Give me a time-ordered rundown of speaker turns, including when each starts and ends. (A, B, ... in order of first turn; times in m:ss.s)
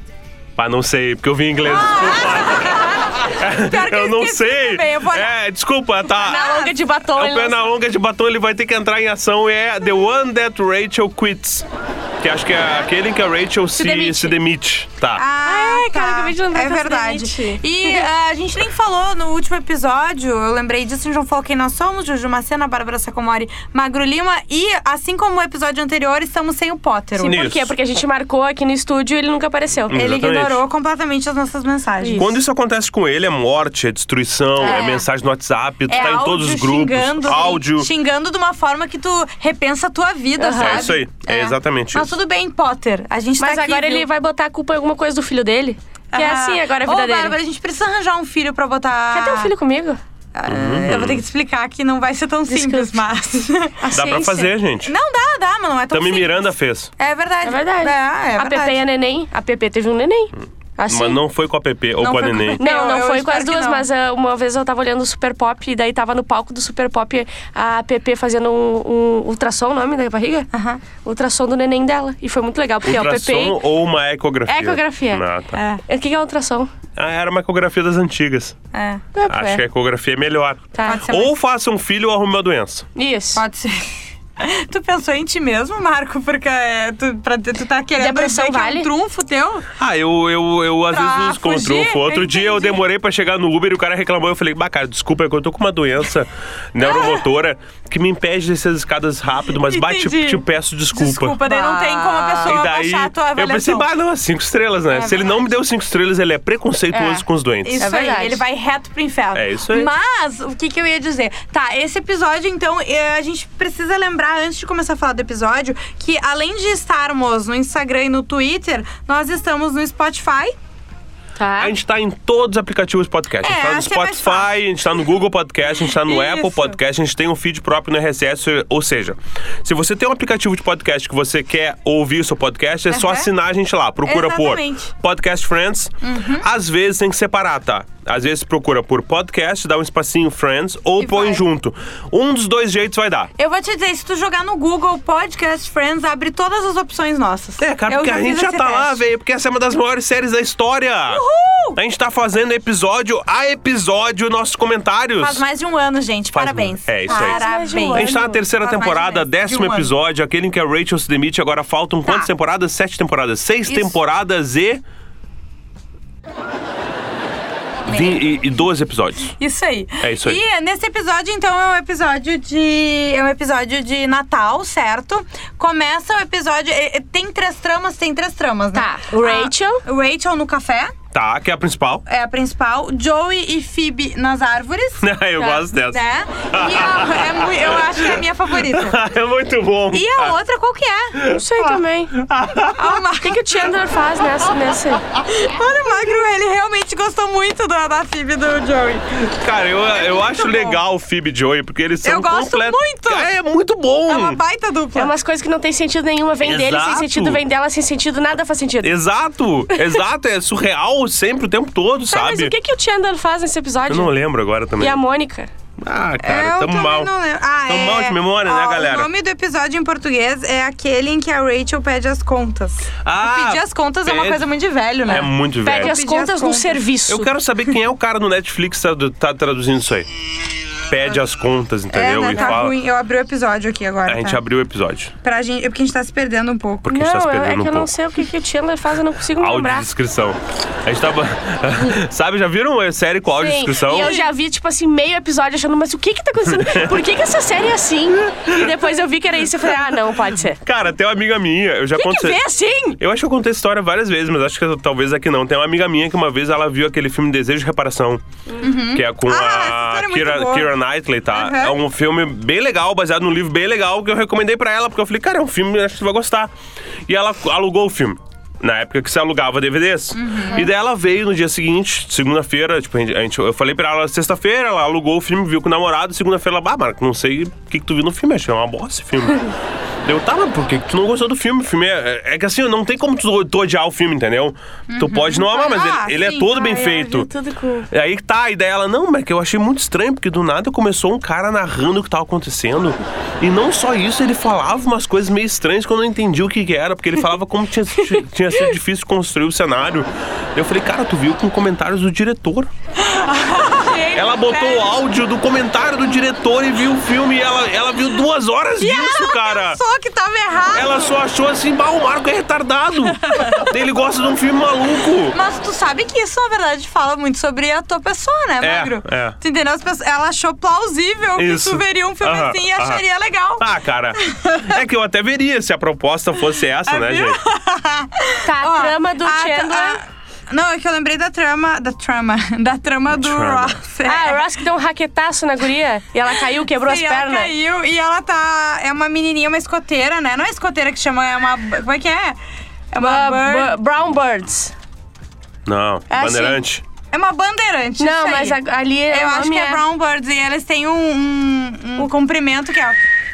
0:00.6-0:06.4 A
0:01.6-0:05.3 B
0:06.1-0:06.8 B
0:06.2-0:07.7 C
0:07.1-0:11.7 A
0:12.2-0:15.2 A
0:13.8-0:14.4 C
0:15.1-0:27.4 B
0:15.4-0:18.0 C
0:27.2-0:30.0 C
0:27.3-0:27.7 A
0:29.9-0:30.6 A
0:29.9-0:32.3 B
0:32.2-0:37.9 A
0:34.6-0:35.0 B
0:34.6-0:35.0 C
0:35.9-0:44.1 B
0:40.4-0:40.9 C
0:40.6-0:42.1 A
0:43.4-0:47.4 C
0:46.1-0:49.5 B
0:49.1-0:50.0 C
0:50.3-0:58.8 B
0:50.5-0:51.2 A
0:52.5-0:53.0 C
0:53.8-0:54.5 C
0:53.9-0:54.9 A
0:55.9-0:56.9 A
0:57.4-1:01.2 C
1:00.9-1:02.6 A
1:02.0-1:03.8 B
1:02.6-1:10.5 C
1:10.5-1:10.8 B
1:11.0-1:13.6 C
1:12.8-1:15.6 A
1:14.5-1:15.2 C
1:15.5-1:15.8 B
1:15.8-1:16.7 C
1:17.0-1:18.6 A
1:18.7-1:19.0 B
1:19.1-1:19.6 C
1:19.3-1:22.9 A
1:20.7-1:21.0 C
1:20.8-1:21.3 B
1:22.9-1:23.4 C
1:23.4-1:29.7 B
1:28.0-1:28.9 C
1:29.8-1:41.4 A
1:30.9-1:32.8 B
1:36.8-1:37.2 B
1:39.6-1:43.9 B
1:41.4-1:42.6 C
1:42.4-1:47.8 A
1:44.9-1:45.4 B
1:46.9-1:47.2 C
1:47.6-2:00.5 B
1:47.8-1:48.4 C
1:49.3-1:49.9 A
2:01.4-2:01.7 C
2:01.6-2:23.3 A
2:03.4-2:04.5 B
2:06.0-2:06.7 B
2:12.9-2:13.3 B
2:14.0-2:14.9 B
2:16.0-2:16.5 B
2:21.0-2:21.4 B
2:23.4-2:29.0 B
2:27.6-2:31.2 A
2:31.1-2:31.8 B
2:31.8-2:35.4 A
2:35.2-2:39.9 B
2:36.3-2:37.4 A
2:37.1-2:38.4 C
2:37.9-2:44.8 A
2:43.7-2:43.9 B
2:47.9-2:48.2 B
2:47.9-2:49.3 A
2:49.4-3:00.9 B
2:50.0-2:50.4 A
2:58.7-2:59.8 C
3:01.1-3:02.0 A
3:02.1-3:05.0 B
3:05.0-3:10.3 A
3:05.7-3:09.0 B
3:09.9-3:11.2 B
3:11.2-3:13.0 A
3:11.2-3:12.1 C
3:12.7-3:13.6 B
3:13.2-3:15.0 C
3:15.3-3:19.2 B
3:19.3-3:24.4 A
3:19.9-3:20.8 B
3:22.0-3:23.3 B
3:24.1-3:25.1 B
3:25.0-3:29.0 C
3:26.4-3:27.4 A
3:28.8-3:32.5 A
3:32.1-3:34.1 C
3:33.9-3:35.0 A
3:34.8-3:35.5 C
3:35.8-3:37.1 A
3:36.2-3:46.8 B
3:37.7-3:39.1 A
3:43.0-3:44.4 A
3:45.0-3:46.0 A
3:45.2-3:47.3 C
3:47.1-3:50.1 A
3:50.8-3:52.8 A
3:51.9-3:54.4 B
3:54.1-3:55.1 A
3:55.2-3:56.9 B
3:56.8-3:57.9 A
3:56.9-3:59.9 C
3:59.4-4:04.1 A
4:03.3-4:10.6 C
4:04.0-4:04.3 B
4:06.5-4:06.9 A
4:08.3-4:08.7 A
4:10.6-4:12.4 A
4:11.9-4:13.0 C
4:13.0-4:18.2 A
4:18.6-4:20.7 B
4:18.9-4:26.5 A
4:21.3-4:21.8 B
4:27.1-4:39.5 A
4:30.2-4:30.7 B
4:40.0-4:47.3 A
4:44.9-4:46.6 B
4:46.5-4:47.9 C
4:47.9-5:02.7 A
5:03.0-5:05.0 B
5:04.1-5:09.8 A
5:08.8-5:11.1 B
5:10.7-5:15.4 A
5:13.3-5:13.7 B
5:15.3-5:23.6 B
5:18.6-5:19.4 A
5:21.4-5:23.0 A
5:23.6-5:27.4 A
5:24.2-5:24.7 B
5:26.8-5:34.5 B
5:28.4-5:30.0 C
5:33.1-5:33.8 A
5:34.0-5:37.5 C
5:36.6-5:42.4 B
5:42.9-5:43.7 B
5:43.0-5:44.7 C
5:45.6-5:46.8 A
5:46.1-5:46.6 C
5:47.1-5:48.6 B
5:48.0-5:49.8 C
5:49.1-5:53.0 B